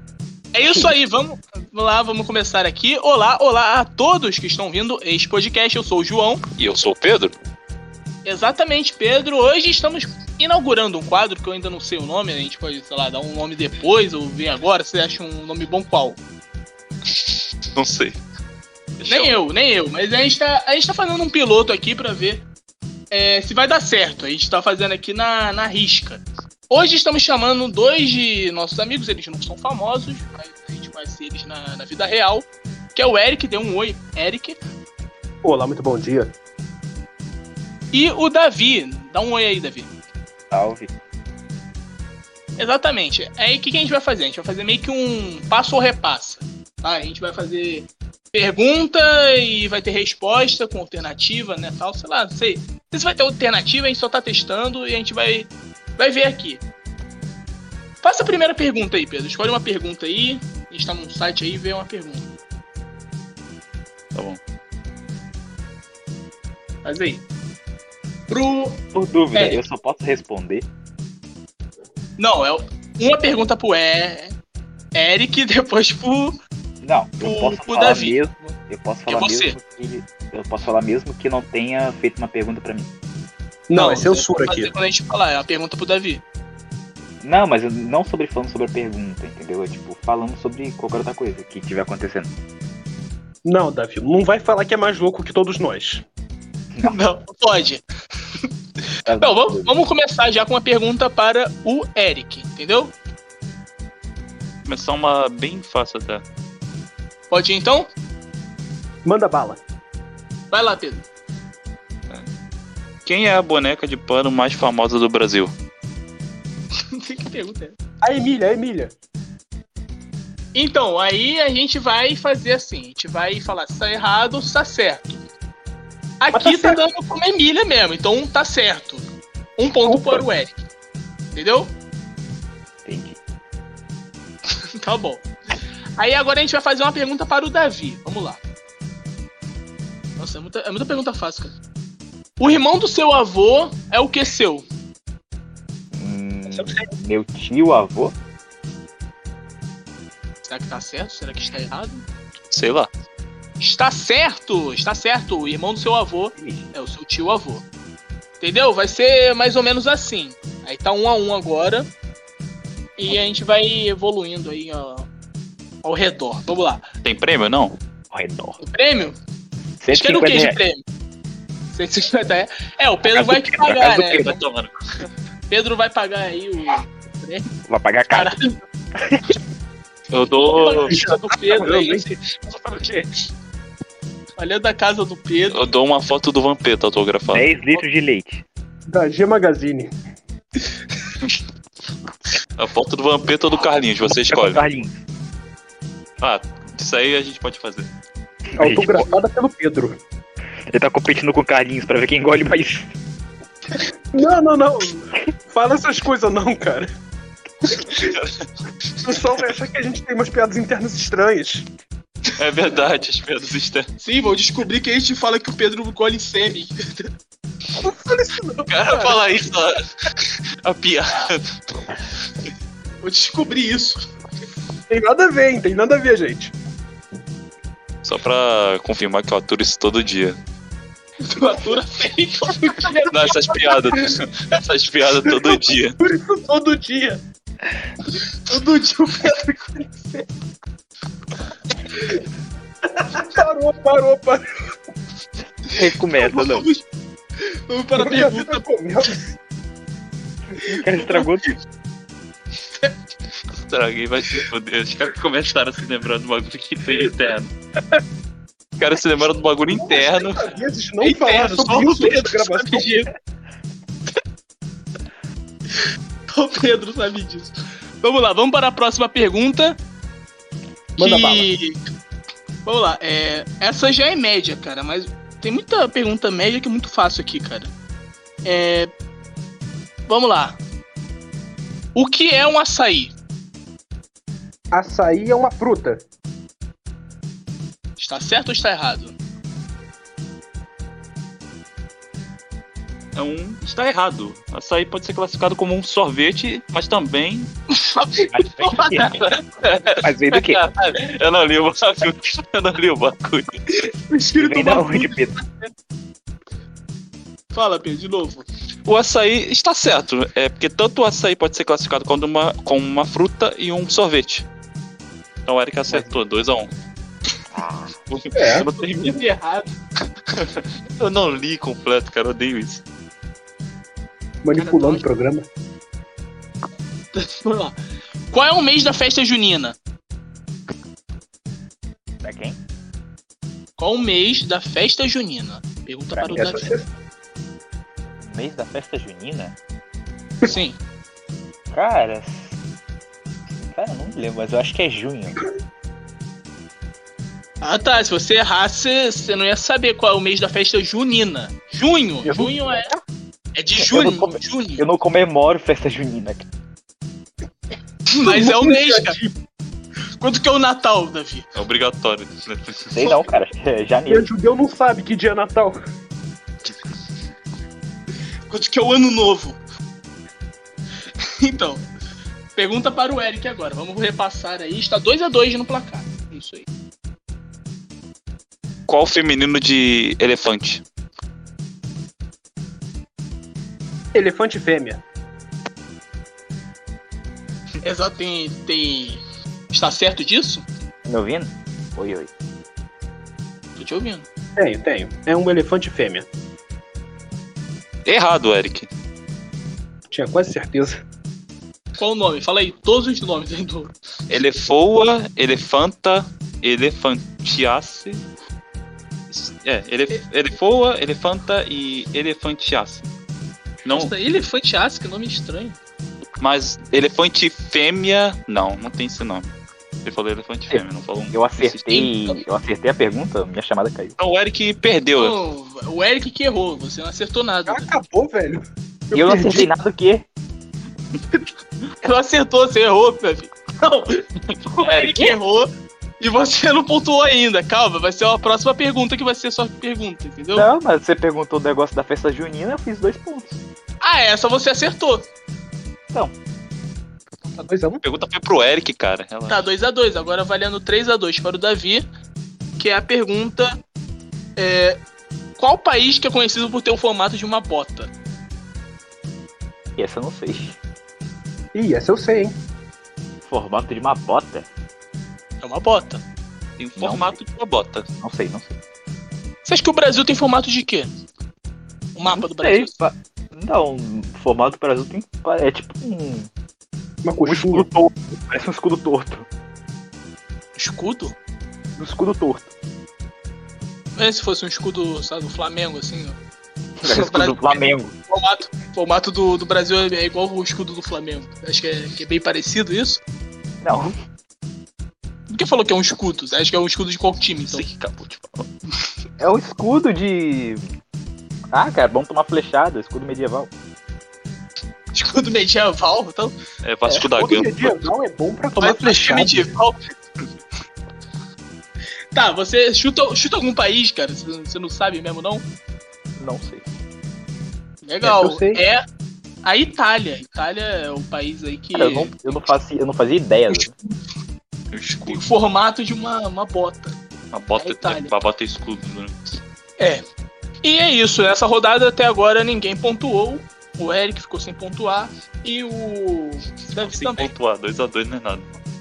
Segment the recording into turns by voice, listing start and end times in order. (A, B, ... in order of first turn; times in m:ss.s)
0:00.5-0:06.4 A
0:00.6-0:00.9 B
0:06.6-0:07.3 C
0:08.2-0:16.2 A
0:17.8-0:18.2 C
0:19.0-0:19.3 C
0:19.1-0:22.5 A
0:23.1-0:34.6 A
0:35.4-0:36.3 D
0:37.9-0:39.9 A
0:40.5-0:40.9 B
0:42.6-0:56.6 A
0:58.0-1:02.2 A
1:04.1-1:04.4 C
1:06.8-1:07.2 A
1:08.3-1:08.8 A
1:08.9-1:10.7 B
1:09.3-1:09.6 A
1:12.2-1:14.4 A
1:14.9-1:16.4 A
1:16.8-1:22.9 B
1:17.2-1:18.2 A
1:19.1-1:19.6 A
1:23.7-1:24.7 D
1:23.7-1:26.2 A
1:27.2-1:32.3 B
1:33.4-1:36.0 D
1:36.8-1:37.8 A
1:39.0-1:39.8 B
1:39.2-1:42.9 A
1:44.6-1:46.2 C
1:47.3-1:47.9 A
1:49.0-1:49.6 D
1:50.5-1:51.0 A
1:53.0-1:55.5 C
1:56.9-1:57.8 A
1:58.0-1:58.9 D
2:00.5-2:05.2 A
2:06.2-2:09.0 A
2:06.3-2:06.8 D
2:09.6-2:10.6 A
2:09.8-2:10.2 D
2:11.3-2:11.7 A
2:12.8-2:13.2 B
2:14.8-2:15.2 A
2:16.0-2:18.4 A
2:20.2-2:21.6 A
2:22.4-2:24.6 A
2:25.9-2:28.2 B
2:30.4-2:32.0 A
2:32.5-2:32.9 C
2:33.6-2:37.6 A
2:38.4-2:41.9 A
2:43.0-2:45.1 A
2:45.8-2:46.9 A
2:47.0-2:47.8 C
2:48.1-2:48.6 B
2:48.6-2:49.2 A
2:49.8-2:50.6 B
2:49.9-2:50.8 A
2:51.7-2:54.4 A
2:53.1-2:54.3 B
2:54.2-2:54.7 C
2:55.5-2:57.5 A
2:57.7-2:58.3 B
2:58.1-2:58.6 A
3:00.1-3:01.0 C
3:00.5-3:02.1 A
3:00.9-3:03.1 D
3:04.4-3:05.7 A
3:05.5-3:07.5 C
3:07.3-3:08.4 B
3:08.9-3:09.9 D
3:12.6-3:14.6 C
3:14.3-3:15.0 B
3:16.2-3:17.9 C
3:18.6-3:19.1 B
3:18.6-3:20.0 D
3:20.7-3:22.9 B
3:24.1-3:26.9 D
3:27.7-3:28.0 D
3:28.0-3:28.4 C
3:29.0-3:31.7 D
3:32.3-3:33.9 C
3:34.0-3:37.0 A
3:37.8-3:39.2 D
3:38.7-3:39.8 C
3:40.6-3:41.5 C
3:43.0-3:44.0 A
3:44.9-3:46.5 D
3:48.0-3:50.4 C
3:51.2-3:53.5 A
3:53.1-3:56.0 C
3:55.5-3:57.2 D
3:58.4-4:00.2 A
4:03.1-4:04.4 D
4:05.7-4:06.7 B
4:06.2-4:06.8 A
4:07.4-4:08.6 A
4:08.0-4:09.2 D
4:10.6-4:11.4 B
4:11.0-4:11.2 A
4:13.6-4:17.5 C
4:18.8-4:20.5 C
4:19.7-4:23.0 D
4:21.0-4:23.1 A
4:26.3-4:29.8 A
4:31.0-4:31.8 A
4:31.0-4:31.5 D
4:32.6-4:37.7 A
4:38.4-4:38.9 A
4:40.1-4:40.6 A
4:41.9-4:43.1 A
4:44.7-4:46.0 D
4:48.0-4:49.2 A
4:53.1-4:57.5 C
4:57.7-4:59.2 A
4:58.2-4:59.2 B
4:59.6-5:03.5 C
5:00.0-5:00.6 B
5:04.1-5:05.2 A
5:04.4-5:05.3 B
5:07.5-5:08.4 A
5:08.8-5:14.4 C
5:15.4-5:16.7 C
5:17.5-5:17.8 B
5:18.1-5:19.2 C
5:18.3-5:18.7 D
5:18.8-5:19.7 A
5:20.3-5:22.8 C
5:24.4-5:25.4 D
5:24.5-5:25.0 A
5:27.1-5:27.8 A
5:28.3-5:29.8 A
5:32.2-5:32.6 B
5:33.8-5:36.7 A
5:36.2-5:36.8 D
5:38.2-5:39.5 B
5:40.4-5:40.8 A
5:41.7-5:42.5 B
5:43.5-5:45.4 B
5:47.6-5:52.9 A
5:52.2-5:52.5 B
5:53.5-5:54.8 A
5:53.8-5:56.5 B
5:58.1-5:59.2 A
5:58.2-5:59.3 D
6:00.2-6:01.5 A
6:01.5-6:02.9 C
6:02.9-6:04.3 B
6:04.1-6:05.8 D
6:08.5-6:09.6 A
6:11.4-6:11.8 A
6:12.6-6:16.7 A
6:18.9-6:20.8 C
6:24.1-6:25.0 D
6:27.8-6:30.6 A
6:31.0-6:32.3 B
6:33.8-6:34.2 A
6:34.6-6:36.3 D
6:38.0-6:38.9 C
6:40.1-6:41.0 D
6:42.0-6:43.9 A
6:44.3-6:48.2 C
6:49.3-6:53.1 C
6:53.8-6:54.1 C
6:53.9-6:55.8 A
6:56.4-6:59.5 C
7:00.0-7:02.1 C
7:00.7-7:04.1 B
7:04.2-7:05.4 C
7:05.2-7:07.9 A
7:07.7-7:09.7 D
7:09.1-7:10.2 B
7:12.0-7:14.2 A
7:14.7-7:15.4 C
7:14.8-7:20.7 A
7:20.5-7:23.6 B
7:24.0-7:25.3 A
7:27.5-7:28.0 D
7:28.0-7:29.6 C
7:29.5-7:32.0 A
7:32.8-7:33.8 A
7:34.6-7:35.0 A
7:35.6-7:38.1 A
7:40.0-7:40.8 B
7:41.7-7:42.6 D
7:43.4-7:44.7 B
7:45.6-7:46.2 A
7:46.8-7:48.1 C
7:47.0-7:47.4 B
7:48.2-7:48.8 B
7:49.6-7:51.1 A
7:52.1-7:52.9 A
7:52.3-7:56.5 B
7:57.2-7:57.9 D
7:57.4-7:59.5 B
8:00.8-8:01.4 A
8:02.0-8:02.7 B
8:04.2-8:06.4 A
8:07.0-8:08.1 B
8:07.0-8:13.2 A
8:13.8-8:14.1 B
8:15.5-8:17.8 A
8:17.7-8:18.7 C
8:19.4-8:20.9 B
8:21.7-8:23.7 B
8:25.1-8:26.5 A
8:26.8-8:28.0 C
8:27.2-8:29.7 D
8:28.8-8:30.0 A
8:32.3-8:35.6 A
8:36.4-8:36.9 B
8:38.0-8:39.0 A
8:38.2-8:38.8 D
8:39.6-8:42.5 A
8:41.9-8:43.9 B
8:44.9-8:45.4 C
8:45.2-8:47.2 A
8:47.5-8:49.6 C
8:47.8-8:48.3 A
8:50.0-8:50.2 A
8:50.8-8:57.5 A
8:57.0-8:58.8 C